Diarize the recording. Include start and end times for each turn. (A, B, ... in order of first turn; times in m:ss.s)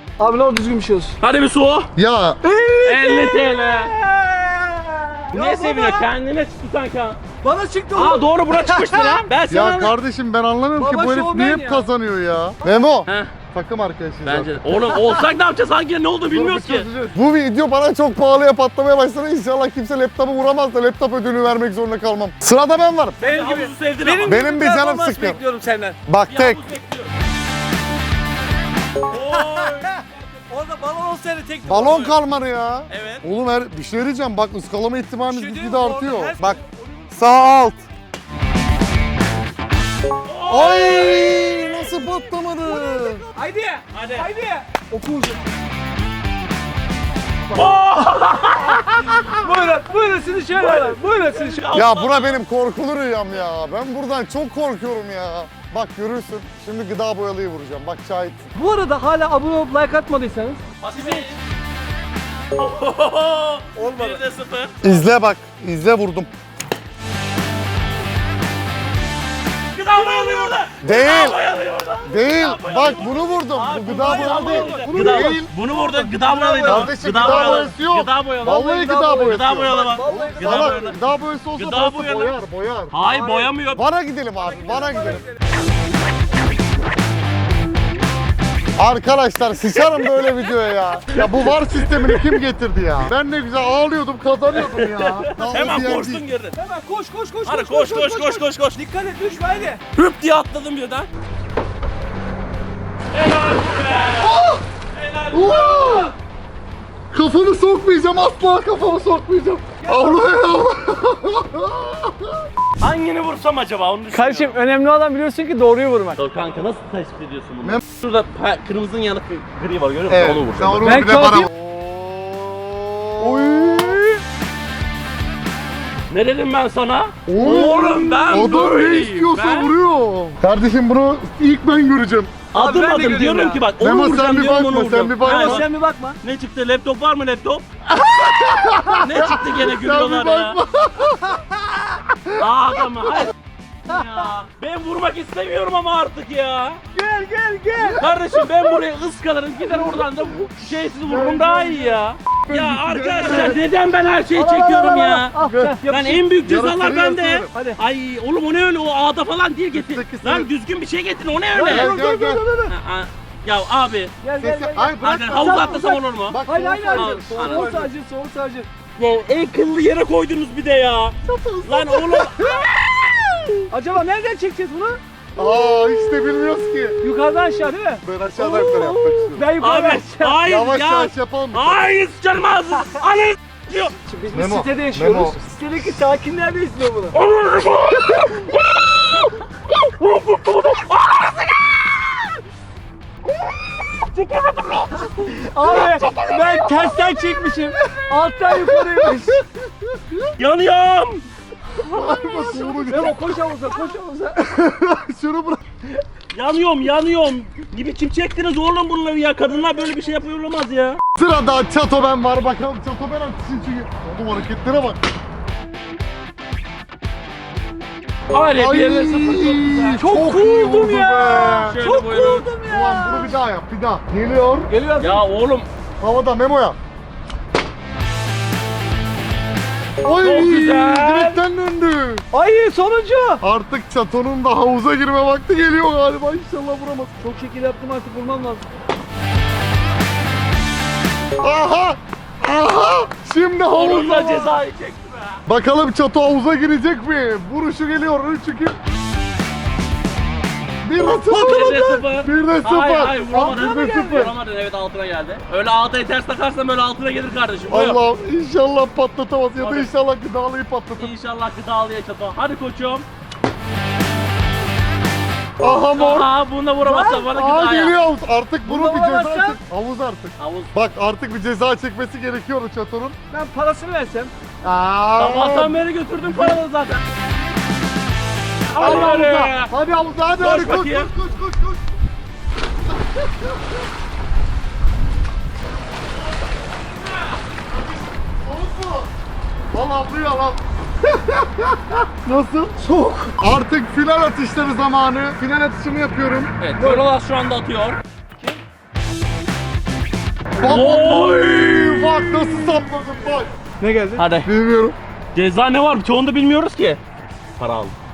0:00.2-0:01.2 A
0:01.2-0:01.9 B
0:02.0-0:02.4 C
0:02.4-0:06.1 A
0:02.8-0:03.9 B
0:05.3-0:07.2 B
0:07.4-0:09.3 A
0:07.9-0:09.9 B
0:09.5-0:14.7 C
0:10.8-0:11.9 A
0:14.2-0:16.9 B
0:16.3-0:23.2 C
0:23.2-0:24.4 B
0:23.2-0:26.0 A
0:24.2-0:25.4 C
0:26.0-0:26.6 C
0:26.3-0:27.1 B
0:29.1-0:30.1 B
0:29.2-0:32.1 A
0:31.6-0:36.6 C
0:32.9-0:33.2 B
0:35.2-0:37.1 A
0:37.1-0:37.8 C
0:40.2-0:42.0 B
0:40.5-0:43.2 C
0:42.6-0:45.4 A
0:43.9-0:44.3 B
0:47.5-0:49.7 B
0:49.3-0:51.7 A
0:50.5-0:52.4 B
0:51.7-0:58.5 C
0:58.5-1:01.3 A
1:00.8-1:01.4 B
1:02.5-1:04.8 B
1:03.8-1:04.2 A
1:04.8-1:06.3 C
1:09.7-1:21.0 B
1:10.8-1:11.4 C
1:12.0-1:15.5 C
1:13.9-1:17.7 A
1:16.6-1:22.9 C
1:18.5-1:20.9 A
1:21.6-1:22.4 B
1:22.9-1:23.8 B
1:23.0-1:23.5 A
1:23.7-1:25.2 C
1:24.4-1:25.4 A
1:28.8-1:36.2 C
1:29.8-1:30.5 B
1:31.1-1:32.4 B
1:34.5-1:36.6 B
1:36.5-1:39.8 A
1:37.4-1:38.8 B
1:39.9-1:41.1 B
1:43.1-1:44.4 B
1:44.2-1:44.6 C
1:44.9-1:46.1 B
1:45.3-1:46.1 C
1:47.1-1:52.5 C
1:49.8-1:50.3 A
1:52.8-1:54.6 B
1:54.1-1:56.2 A
1:56.2-2:00.9 B
2:00.1-2:04.0 C
2:00.8-2:01.5 A
2:03.2-2:04.2 A
2:06.1-2:09.7 B
2:07.3-2:12.4 C
2:12.5-2:15.6 B
2:12.5-2:13.6 A
2:13.8-2:15.6 C
2:15.2-2:16.2 A
2:16.2-2:17.6 B
2:18.0-2:22.4 C
2:19.0-2:20.6 B
2:22.4-2:23.3 B
2:23.8-2:26.8 B
2:23.9-2:24.2 A
2:26.9-2:28.0 A
2:27.8-2:28.4 C
2:28.0-2:35.3 B
2:29.6-2:29.9 A
2:30.4-2:33.6 C
2:34.3-2:36.2 A
2:35.4-2:35.8 C
2:35.9-2:41.9 B
2:36.4-2:37.5 C
2:37.5-2:37.8 A
2:39.7-2:40.5 C
2:41.5-2:42.7 A
2:41.6-2:42.4 C
2:42.7-2:44.1 B
2:44.2-2:48.7 A
2:44.4-2:47.9 C
2:45.0-2:46.4 B
2:46.9-2:47.7 B
2:49.0-2:53.6 B
2:51.3-2:52.2 C
2:51.4-2:51.9 A
2:53.7-2:56.2 A
2:55.4-2:57.1 C
2:57.0-3:00.4 A
2:58.0-2:59.5 C
2:59.1-3:03.9 B
3:00.4-3:01.8 C
3:04.0-3:07.2 A
3:04.3-3:05.4 C
3:07.1-3:12.3 B
3:13.6-3:15.4 B
3:15.4-3:19.4 A
3:15.7-3:20.3 C
3:20.4-3:21.2 B
3:21.9-3:23.6 C
3:22.4-3:24.5 A
3:24.4-3:25.8 C
3:26.3-3:31.0 B
3:31.2-3:35.0 C
3:38.3-3:40.0 B
3:38.5-3:41.8 C
3:40.0-3:43.4 A
3:41.6-3:42.4 B
3:42.7-3:44.7 C
3:44.7-3:45.2 A
3:45.0-3:45.7 B
3:46.0-3:46.8 C
3:50.0-3:52.2 C
3:50.2-3:51.4 B
3:52.3-3:53.4 A
3:53.4-3:57.1 C
3:57.2-3:58.7 A
4:01.4-4:04.6 C
4:03.7-4:05.4 B
4:05.4-4:08.8 C
4:10.8-4:14.3 C
4:11.1-4:18.0 B
4:13.5-4:14.2 A
4:17.7-4:21.1 C
4:19.6-4:19.9 B
4:21.0-4:23.0 B
4:25.6-4:26.3 C
4:25.7-4:28.0 B
4:26.8-4:33.1 C
4:28.6-4:29.6 A
4:30.4-4:30.7 B
4:33.3-4:34.3 A
4:34.6-4:36.6 C
4:35.2-4:37.0 B
4:38.7-4:39.7 B
4:38.8-4:41.8 C
4:40.4-4:41.1 B
4:42.9-4:43.7 C
4:47.7-4:49.1 C
4:49.7-4:56.5 C
4:52.9-4:53.3 A
4:56.6-4:58.0 B
5:00.6-5:03.5 C
5:00.6-5:02.4 B
5:03.8-5:04.2 A
5:04.2-5:04.5 B
5:04.4-5:05.0 C
5:05.3-5:07.0 B
5:07.6-5:07.9 B